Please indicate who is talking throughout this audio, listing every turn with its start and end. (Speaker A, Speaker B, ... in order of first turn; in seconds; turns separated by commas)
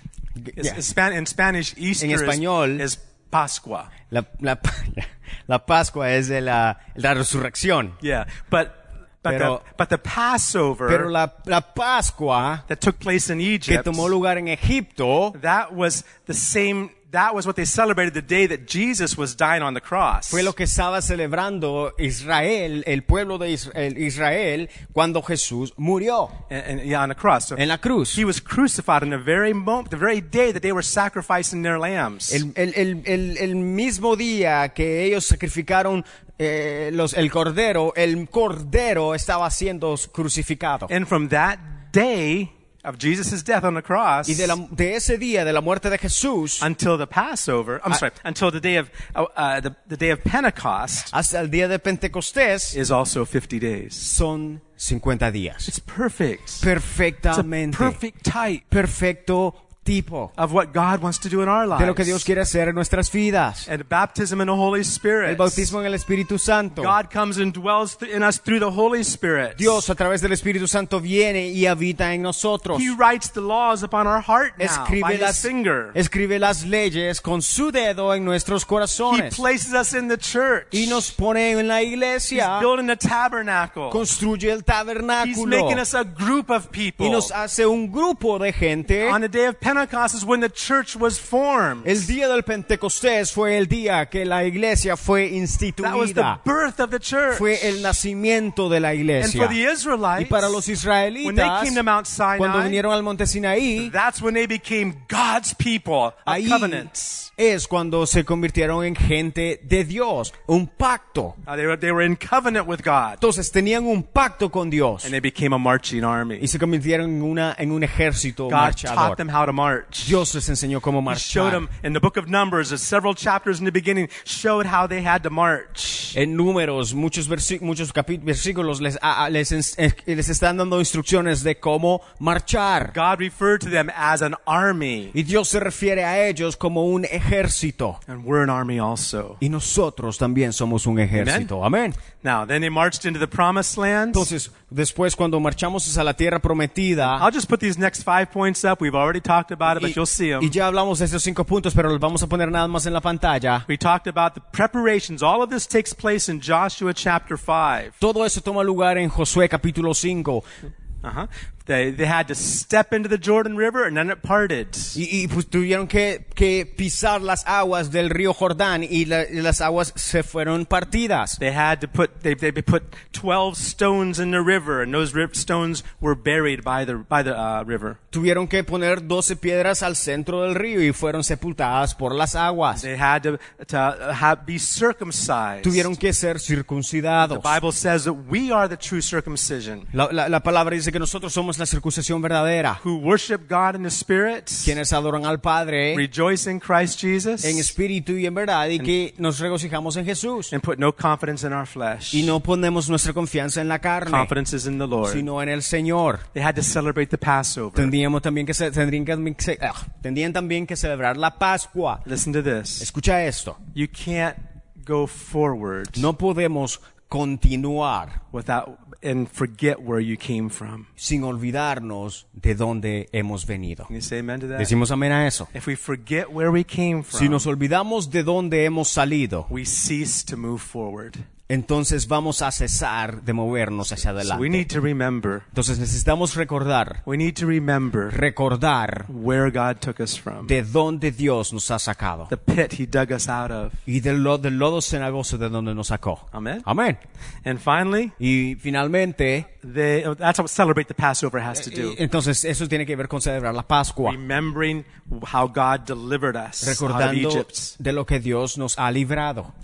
Speaker A: 0.4-0.8, Speaker B: 0.6-3.9, Speaker A: 2.0-2.9, Speaker A: 4.1-8.0, Speaker B: 8.0-11.1, Speaker A: 9.3-9.6, Speaker A: 10.9-12.6, Speaker B: 12.7-14.1, Speaker A: 13.7-15.4, Speaker B: 15.3-20.5, Speaker A: 20.3-26.4, Speaker B: 26.5-27.6, Speaker A: 27.6-28.2, Speaker B: 28.1-32.4, Speaker A: 32.3-40.9, Speaker B: 40.9-44.6, Speaker A: 44.3-46.7, Speaker B: 46.6-51.1, Speaker A: 51.1-52.8, Speaker B: 52.7-54.1, Speaker A: 54.0-55.7, Speaker B: 55.7-56.7, Speaker A: 56.6-58.0, Speaker B: 57.3-58.6, Speaker A: 58.7-60.3, Speaker B: 60.4-62.3, Speaker A: 61.8-63.7, Speaker B: 63.7-65.8, Speaker A: 65.3-67.0, Speaker B: 66.8-69.8, Speaker A: 69.6-72.9, Speaker B: 72.7-76.0, Speaker A: 74.6-79.4, Speaker B: 79.1-81.1, Speaker A: 80.7-82.7, Speaker B: 82.3-84.0, Speaker A: 83.9-85.8, Speaker B: 85.2-87.3, Speaker A: 87.0-89.2, Speaker B: 89.0-92.1, Speaker A: 91.8-96.4, Speaker B: 95.8-98.0, Speaker A: 97.3-99.6, Speaker B: 99.2-100.6, Speaker A: 100.2-101.8, Speaker B: 101.2-102.8, Speaker A: 102.4-103.9, Speaker B: 103.8-107.3, Speaker A: 106.3-111.4, Speaker B: 111.5-113.2, Speaker A: 113.2-115.1, Speaker B: 115.0-116.5, Speaker A: 116.4-119.2, Speaker B: 118.5-120.2, Speaker A: 120.0-121.7, Speaker B: 121.1-126.2, Speaker A: 126.1-132.9, Speaker B: 132.9-135.2, Speaker A: 135.1-138.0, Speaker B: 138.1-139.4, Speaker A: 139.4-142.0, Speaker B: 141.2-141.5, Speaker B: 142.2-144.3, Speaker A: 144.1-147.3, Speaker B: 147.1-150.6, Speaker A: 149.7-153.7, Speaker B: 153.7-158.0, Speaker A: 158.0-160.5, Speaker B: 161.0-165.0, Speaker A: 164.9-171.4, Speaker B: 171.4-178.0, Speaker A: 178.1-182.8, Speaker B: 182.7-185.9, Speaker A: 185.6-187.6, Speaker B: 187.2-189.9, Speaker A: 189.9-192.8, Speaker B: 192.8-194.8, Speaker A: 194.6-196.1, Speaker B: 195.9-197.7, Speaker A: 197.4-200.5, Speaker B: 200.5-202.3, Speaker A: 202.1-204.3, Speaker B: 204.1-205.3, Speaker A: 205.1-206.2, Speaker B: 206.3-207.9, Speaker A: 207.8-212.1, Speaker B: 212.1-212.9, Speaker A: 212.8-213.6, Speaker B: 213.8-216.1, Speaker A: 216.0-218.2, Speaker B: 218.3-220.9, Speaker A: 221.0-223.9, Speaker B: 223.9-224.7, Speaker A: 224.6-225.5, Speaker B: 225.5-227.5, Speaker A: 227.1-229.5, Speaker B: 229.5-231.2, Speaker A: 231.5-234.7, Speaker B: 234.2-235.5, Speaker A: 235.5-237.0, Speaker B: 237.1-238.2, Speaker A: 238.1-239.1, Speaker B: 239.1-240.5, Speaker A: 240.4-242.3, Speaker B: 242.3-243.8, Speaker A: 243.9-247.0, Speaker B: 246.3-246.7, Speaker B: 247.4-248.2, Speaker A: 248.2-249.5, Speaker B: 249.6-252.0, Speaker A: 251.5-254.2, Speaker B: 254.0-257.8, Speaker A: 256.6-259.5